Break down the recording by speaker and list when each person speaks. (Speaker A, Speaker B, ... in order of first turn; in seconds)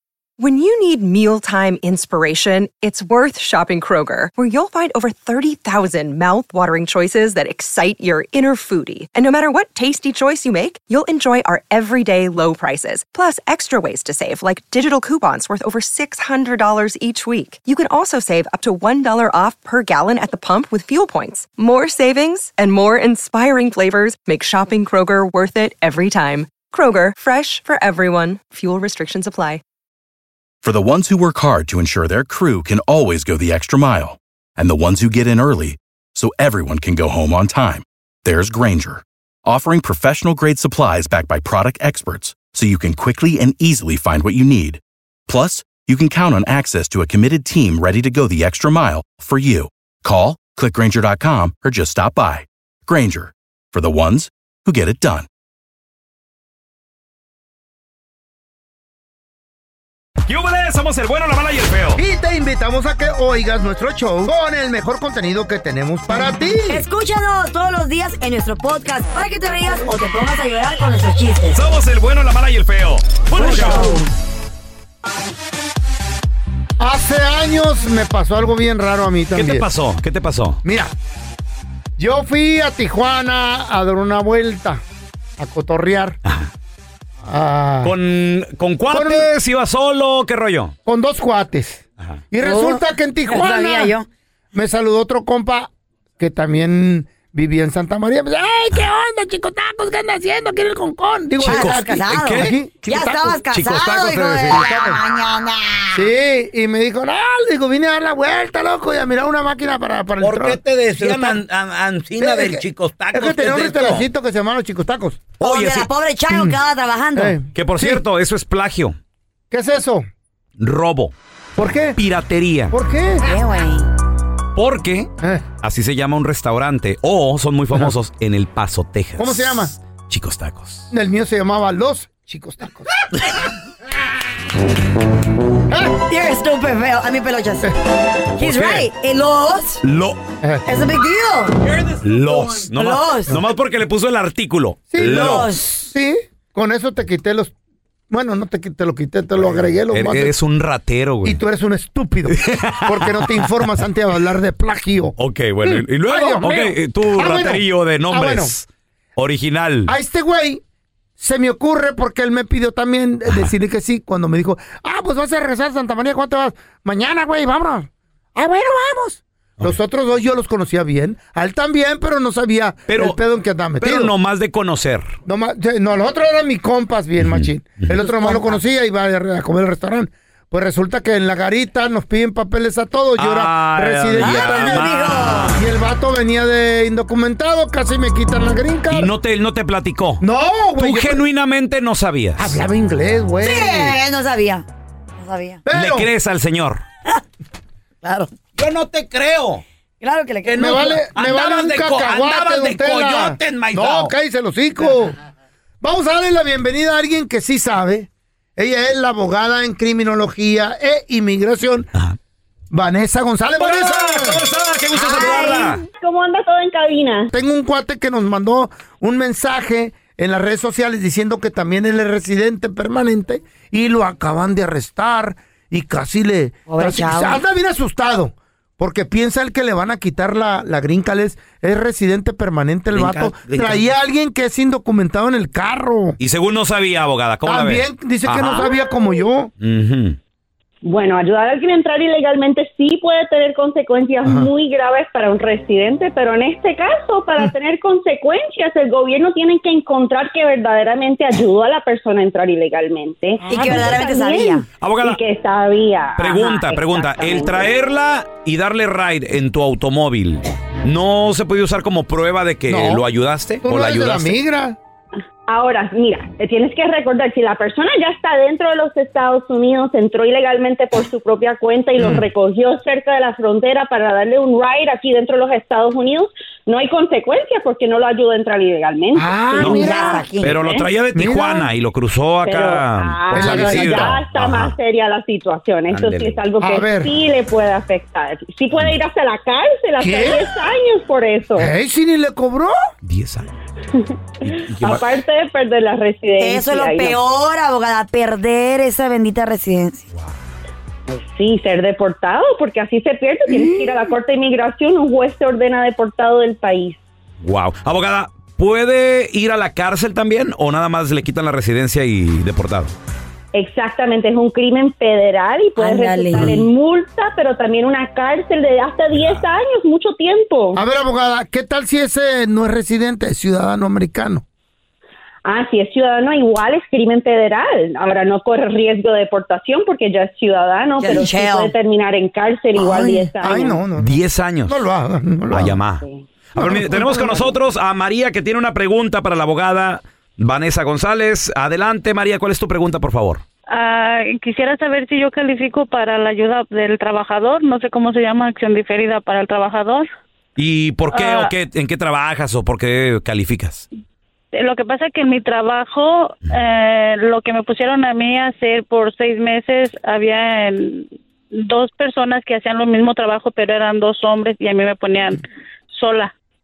Speaker A: 0.4-29.6
Speaker B: 30.6-55.3
Speaker C: 60.3-62.0, 71.5-74.0, 79.3-80.6, 86.2-86.5, 87.8-90.7, 101.4-102.5, 103.5-104.6, 111.0-111.4, 115.4-115.9, 117.5-119.0, 120.6-121.1, 122.0-122.7, 124.6-125.1, 125.6-130.9, 138.4-138.9, 139.8-140.2, 142.0-145.5, 149.9-151.4, 152.3-153.4, 155.2-159.9, 172.9-173.2, 173.8-175.2, 183.2-185.6, 188.9-190.2, 190.8-192.4, 195.7-196.8, 213.6-215.8, 236.2-238.7, 239.6-240.2, 254.8-255.2, 256.2-264.4, 280.4-284.8, 285.9-286.4, 293.0-293.5, 294.4-295.1, 307.4-312.9, 334.0-334.8, 335.5-336.0, 336.6-343.4, 350.6-353.9
Speaker D: 62.0-66.8, 76.8-79.7, 80.6-80.9, 82.0-84.8, 85.4-86.2, 87.2-87.9, 88.9-89.3, 90.8-93.9, 94.5-103.4, 104.5-105.0, 105.9-110.6, 112.2-115.2, 116.3-116.6, 117.1-118.0, 119.5-120.1, 121.6-122.0, 122.7-123.2, 129.2-129.7, 130.9-132.9, 135.7-136.0, 144.9-147.5, 148.1-150.3, 151.2-158.5, 159.9-160.6, 161.2-174.1, 175.2-184.9, 185.5-189.1, 190.2-191.2, 192.4-193.9, 195.6-196.1, 200.6-205.2, 205.8-211.9, 212.7-214.4, 217.3-236.2, 237.5-239.5, 244.2-244.5, 262.7-263.1, 263.6-264.8, 272.0-272.2, 279.1-280.2, 281.1-281.7, 283.3-284.2, 286.6-287.1, 290.0-290.5, 291.6-292.7, 303.5-303.9, 320.7-324.4, 332.8-335.8, 336.6-337.5
Speaker E: 66.7-71.6, 73.3-74.1, 92.4-94.1, 101.4-106.1, 115.4-117.4, 123.2-123.9, 136.1-137.7, 138.3-139.8, 140.7-141.7, 142.4-143.3, 145.0-145.9, 178.0-178.6, 184.2-185.6, 193.4-194.7, 195.2-195.6, 198.0-198.3, 200.0-200.8, 214.9-215.8, 226.7-227.4, 253.5-254.7, 279.6-280.5, 296.4-300.0, 315.8-316.7, 331.0-331.7
Speaker F: 110.2-114.1, 141.7-142.6, 198.6-199.6, 200.4-204.1, 232.9-233.9
Speaker G: 215.2-217.3, 240.8-257.8, 265.5-280.9, 282.4-291.7, 293.9-297.2, 301.1-307.0, 313.5-320.8, 325.5-333.8
Speaker H: 343.7-350.1, 351.1-351.5, 354.6-366.3